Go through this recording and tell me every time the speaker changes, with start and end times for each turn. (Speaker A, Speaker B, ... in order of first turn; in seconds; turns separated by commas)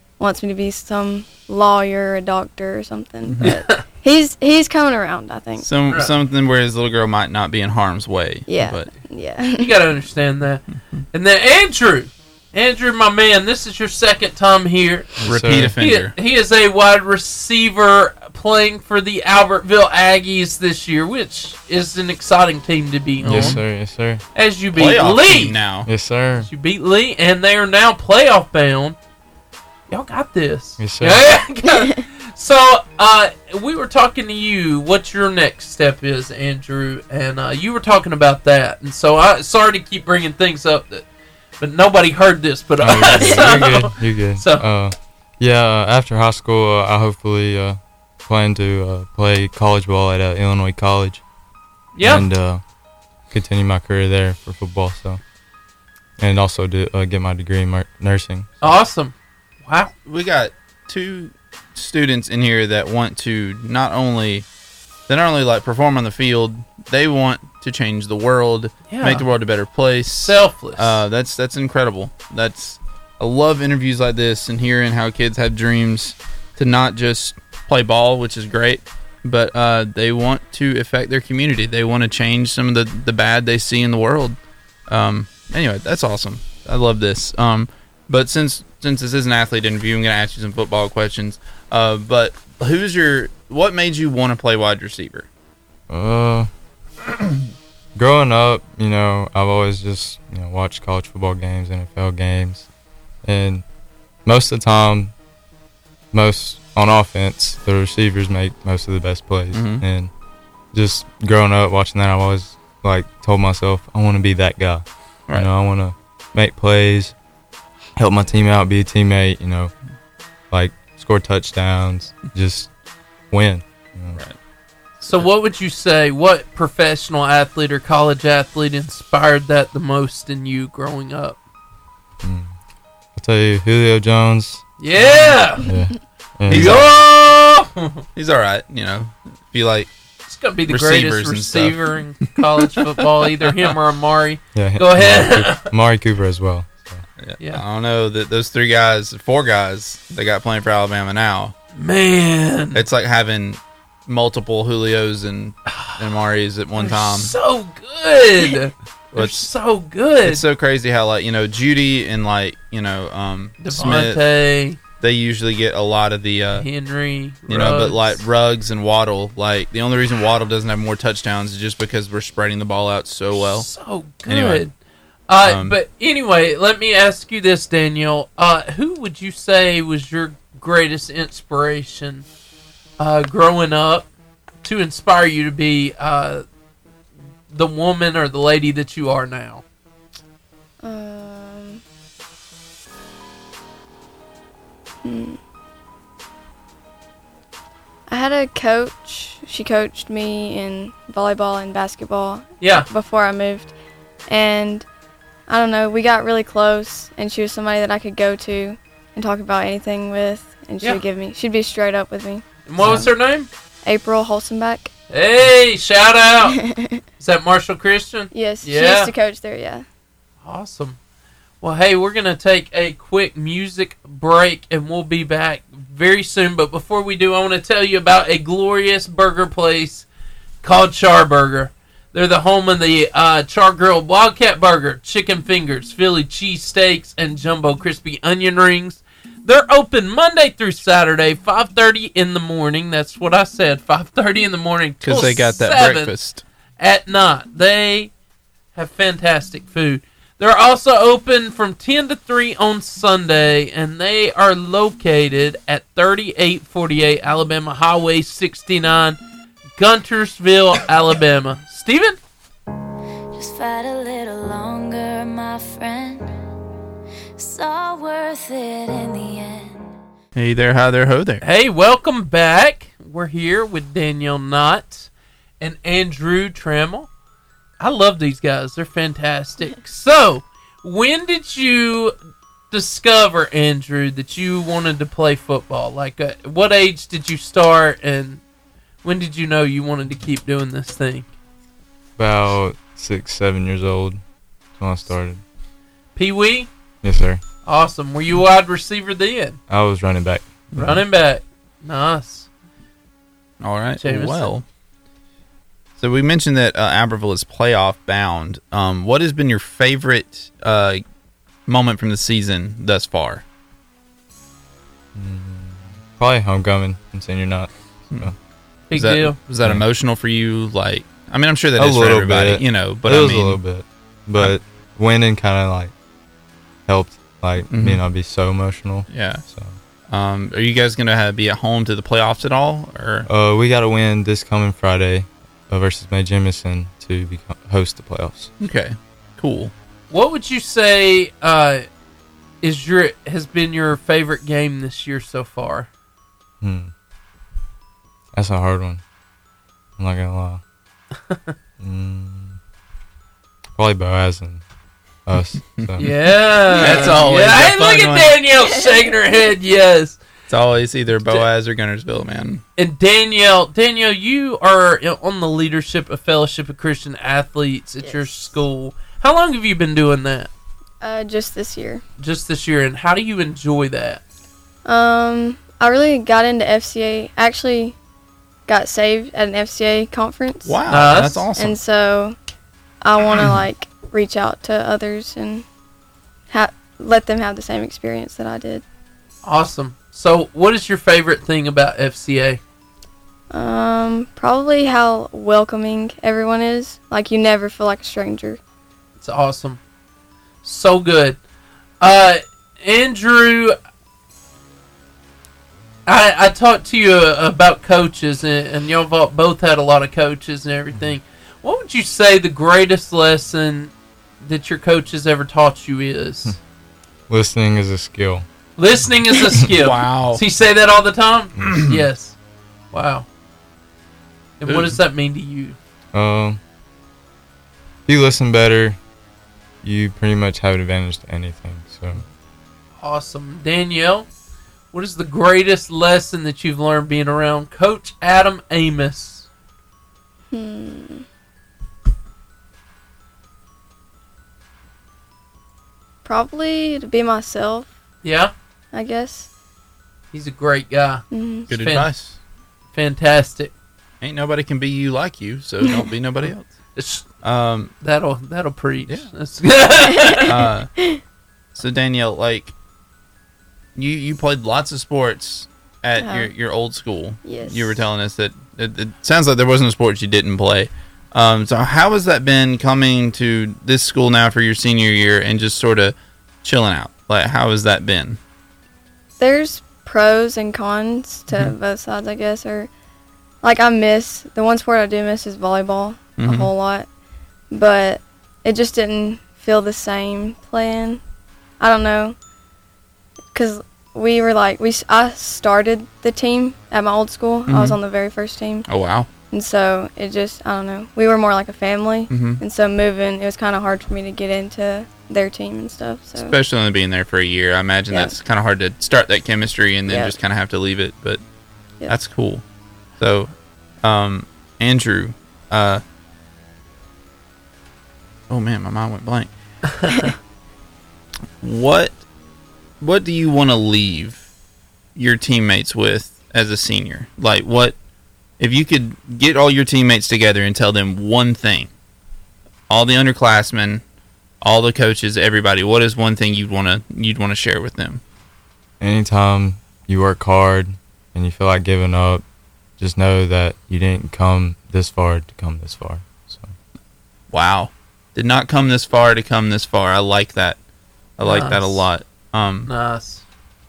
Speaker A: 0.2-5.7, Speaker B: 3.3-3.5, Speaker C: 3.4-3.8, Speaker B: 5.6-8.9, Speaker A: 8.5-9.8, Speaker C: 9.6-15.1, Speaker D: 15.2-15.8, Speaker B: 15.2-16.1, Speaker C: 15.8-23.6, Speaker D: 23.2-24.2, Speaker B: 23.3-23.6, Speaker C: 24.3-25.6, Speaker B: 24.7-25.9, Speaker D: 25.9-26.5, Speaker C: 26.4-29.0, Speaker C: 29.9-41.1, Speaker D: 30.8-31.3, Speaker A: 31.7-32.0, Speaker C: 41.6-44.7, Speaker D: 42.8-51.2, Speaker C: 52.0-52.3, Speaker D: 52.0-52.6, Speaker D: 53.3-55.2, Speaker D: 56.2-58.5, Speaker C: 58.6-59.9, Speaker B: 60.1-64.5, Speaker B: 65.1-84.4, Speaker C: 68.9-69.3, Speaker C: 70.2-71.0, Speaker B: 84.9-95.3, Speaker D: 95.9-96.5, Speaker D: 98.0-102.7, Speaker D: 103.2-103.6, Speaker D: 104.2-105.1, Speaker D: 106.1-110.1, Speaker B: 109.5-109.8, Speaker D: 110.7-117.1, Speaker D: 118.0-119.7, Speaker D: 120.5-122.7, Speaker D: 123.3-124.2, Speaker B: 125.0-125.3, Speaker C: 125.0-131.4, Speaker D: 132.2-132.6, Speaker D: 133.2-134.6, Speaker C: 134.8-135.7, Speaker D: 135.6-136.9, Speaker B: 136.5-137.1, Speaker C: 136.5-138.0, Speaker B: 138.2-139.9, Speaker C: 140.3-145.7, Speaker B: 140.7-141.8, Speaker D: 144.6-147.1, Speaker B: 147.2-151.5, Speaker C: 151.7-152.8, Speaker B: 152.7-157.3, Speaker C: 155.7-156.2, Speaker C: 156.8-160.4, Speaker B: 159.1-159.5, Speaker B: 160.2-164.2, Speaker C: 163.6-164.8, Speaker B: 165.0-166.7, Speaker C: 166.5-168.2, Speaker B: 167.5-173.7, Speaker C: 173.3-174.7, Speaker B: 174.3-174.6, Speaker C: 175.3-182.3, Speaker B: 175.4-175.8, Speaker C: 183.0-184.1, Speaker C: 184.6-186.4, Speaker C: 187.5-189.6, Speaker A: 190.8-191.8, Speaker A: 195.0-195.4, Speaker A: 198.1-203.7, Speaker C: 202.6-202.9, Speaker A: 204.3-204.9, Speaker A: 205.5-213.1, Speaker C: 212.7-213.5, Speaker A: 213.8-214.9, Speaker C: 215.1-216.6, Speaker A: 216.5-217.0, Speaker C: 217.2-219.1, Speaker A: 218.3-219.9, Speaker C: 220.4-221.0, Speaker C: 221.6-230.1, Speaker C: 230.6-246.1, Speaker B: 245.0-246.4, Speaker C: 246.8-248.1, Speaker C: 248.7-259.2, Speaker C: 259.8-262.2, Speaker E: 263.3-266.3, Speaker E: 267.4-269.9, Speaker B: 270.4-271.4, Speaker C: 271.4-277.1, Speaker C: 277.8-282.1, Speaker C: 282.7-288.4, Speaker C: 289.0-291.3, Speaker D: 292.2-294.2, Speaker D: 294.8-295.4, Speaker C: 296.2-296.7, Speaker D: 297.0-297.4, Speaker C: 297.6-299.6, Speaker D: 299.7-300.9, Speaker C: 300.8-302.5, Speaker B: 303.6-304.6, Speaker C: 304.0-304.5, Speaker B: 306.0-311.0, Speaker B: 311.7-313.4, Speaker D: 315.1-318.4, Speaker C: 318.9-319.4, Speaker B: 318.9-323.6, Speaker D: 321.8-325.9, Speaker D: 326.9-329.8, Speaker B: 327.7-328.0, Speaker B: 329.1-329.4, Speaker B: 330.1-333.3, Speaker D: 333.3-338.5, Speaker B: 338.6-339.7, Speaker C: 340.1-341.9, Speaker C: 342.6-345.9, Speaker D: 346.6-346.9, Speaker D: 348.3-349.0, Speaker D: 350.0-350.6, Speaker D: 351.8-352.6, Speaker D: 353.8-354.6, Speaker D: 355.3-356.1, Speaker B: 355.8-356.1, Speaker C: 356.0-360.2, Speaker B: 356.7-358.4, Speaker A: 358.7-359.1, Speaker B: 360.5-362.6, Speaker C: 361.2-361.5, Speaker C: 362.8-370.5, Speaker A: 368.0-368.3, Speaker A: 371.0-372.0, Speaker C: 372.2-374.2, Speaker A: 374.9-378.0, Speaker A: 378.7-380.9, Speaker B: 380.6-381.8, Speaker C: 380.9-381.5, Speaker A: 381.5-382.4, Speaker A: 383.0-385.7, Speaker B: 383.3-383.6, Speaker A: 386.5-388.8, Speaker C: 389.4-392.6, Speaker A: 393.5-398.6, Speaker C: 399.2-399.8, Speaker C: 400.6-401.4, Speaker C: 402.0-403.8, Speaker C: 406.1-416.6, Speaker D: 417.3-418.4, Speaker C: 418.8-422.4, Speaker B: 419.7-420.4, Speaker B: 421.7-422.0, Speaker C: 422.9-423.3, Speaker C: 424.6-425.8, Speaker B: 424.7-425.0, Speaker D: 426.1-426.6, Speaker D: 428.1-429.0, Speaker D: 429.8-432.2, Speaker C: 433.0-434.3, Speaker C: 434.9-439.5, Speaker A: 440.5-441.2, Speaker A: 446.2-447.9, Speaker C: 448.2-448.5, Speaker A: 448.9-449.5, Speaker C: 450.3-452.1, Speaker A: 451.3-451.8, Speaker B: 451.7-452.4, Speaker C: 452.9-453.7, Speaker B: 454.2-456.7, Speaker A: 455.8-456.1, Speaker C: 457.0-457.3, Speaker B: 457.4-457.9, Speaker C: 458.0-460.6, Speaker A: 460.0-461.2, Speaker B: 460.5-460.9, Speaker B: 461.8-462.7, Speaker B: 464.0-478.4, Speaker A: 466.2-466.5, Speaker A: 467.4-468.1, Speaker A: 479.4-482.9, Speaker A: 483.6-487.1, Speaker B: 486.4-486.7, Speaker A: 487.7-491.2, Speaker A: 491.8-492.4, Speaker A: 493.5-498.9, Speaker B: 497.7-498.0, Speaker B: 498.9-499.3, Speaker A: 499.5-506.6, Speaker B: 502.3-502.6, Speaker B: 506.4-511.4, Speaker A: 508.1-508.4, Speaker A: 510.1-510.4, Speaker B: 512.1-512.6, Speaker B: 513.2-513.5, Speaker B: 514.0-516.0, Speaker B: 518.5-519.5, Speaker B: 521.6-522.2, Speaker B: 523.0-524.5, Speaker B: 525.2-528.0, Speaker B: 528.6-531.9, Speaker B: 532.9-534.0, Speaker B: 534.6-538.2, Speaker D: 539.0-542.4, Speaker D: 543.0-546.7, Speaker B: 547.5-550.8, Speaker B: 551.4-552.9, Speaker C: 551.4-552.1, Speaker C: 552.9-553.4